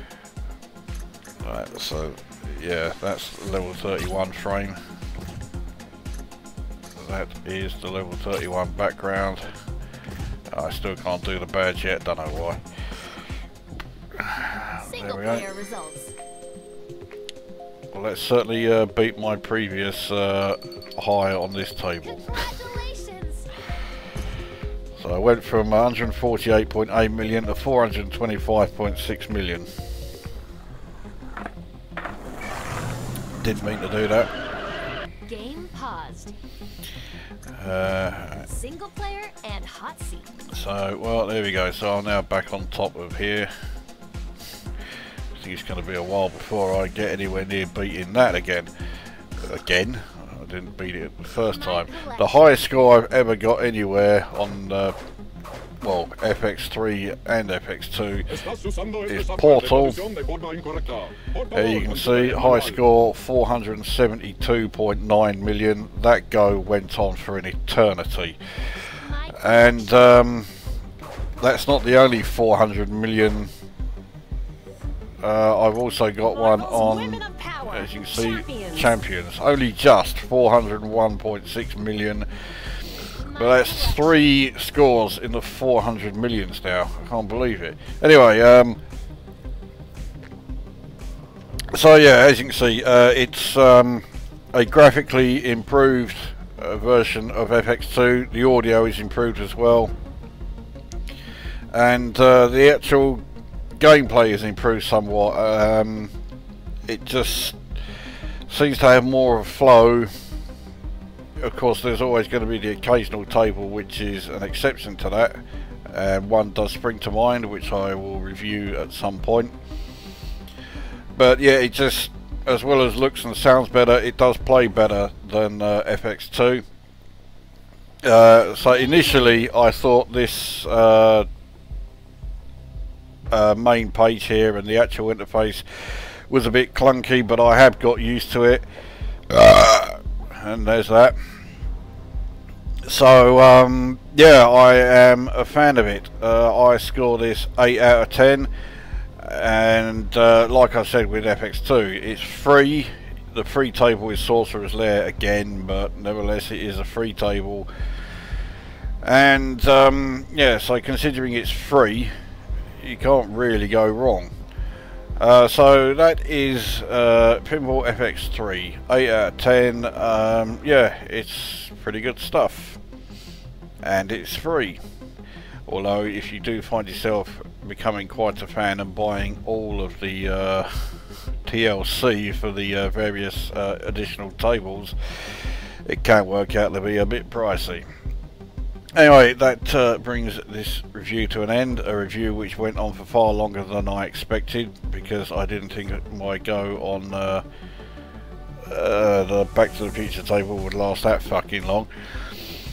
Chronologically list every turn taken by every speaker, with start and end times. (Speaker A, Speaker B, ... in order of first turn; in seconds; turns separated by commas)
Speaker A: 1.4-4.8, Speaker A: 7.0-9.5, Speaker A: 10.5-12.6, Speaker A: 14.2-15.4, Speaker B: 14.8-16.1, Speaker A: 17.9-22.4, Speaker B: 22.0-23.6, Speaker A: 25.0-29.7, Speaker A: 33.4-34.3, Speaker B: 35.2-36.3, Speaker A: 37.6-38.4, Speaker B: 38.4-40.3, Speaker A: 40.5-43.5, Speaker A: 45.4-48.7, Speaker A: 49.4-55.0, Speaker B: 51.5-52.6, Speaker A: 55.8-58.3, Speaker C: 58.4-62.8, Speaker A: 59.1-60.0, Speaker A: 61.5-68.4, Speaker B: 68.8-70.1, Speaker A: 69.3-70.5, Speaker A: 71.4-73.5, Speaker A: 75.2-82.3, Speaker B: 76.2-79.0, Speaker B: 83.0-84.5, Speaker A: 83.3-88.8, Speaker A: 91.7-99.9, Speaker A: 101.7-103.2, Speaker A: 103.8-106.1, Speaker A: 106.9-107.6, Speaker A: 108.5-110.1, Speaker A: 111.4-119.5, Speaker A: 121.2-126.6, Speaker A: 128.0-131.3, Speaker B: 128.6-129.5, Speaker A: 133.3-138.6, Speaker A: 139.3-141.2, Speaker A: 142.9-148.5, Speaker A: 149.2-157.7, Speaker A: 159.0-162.1, Speaker A: 162.8-164.3, Speaker A: 165.2-172.8, Speaker A: 173.8-174.8, Speaker A: 175.7-187.8, Speaker A: 188.9-197.4, Speaker A: 198.7-201.9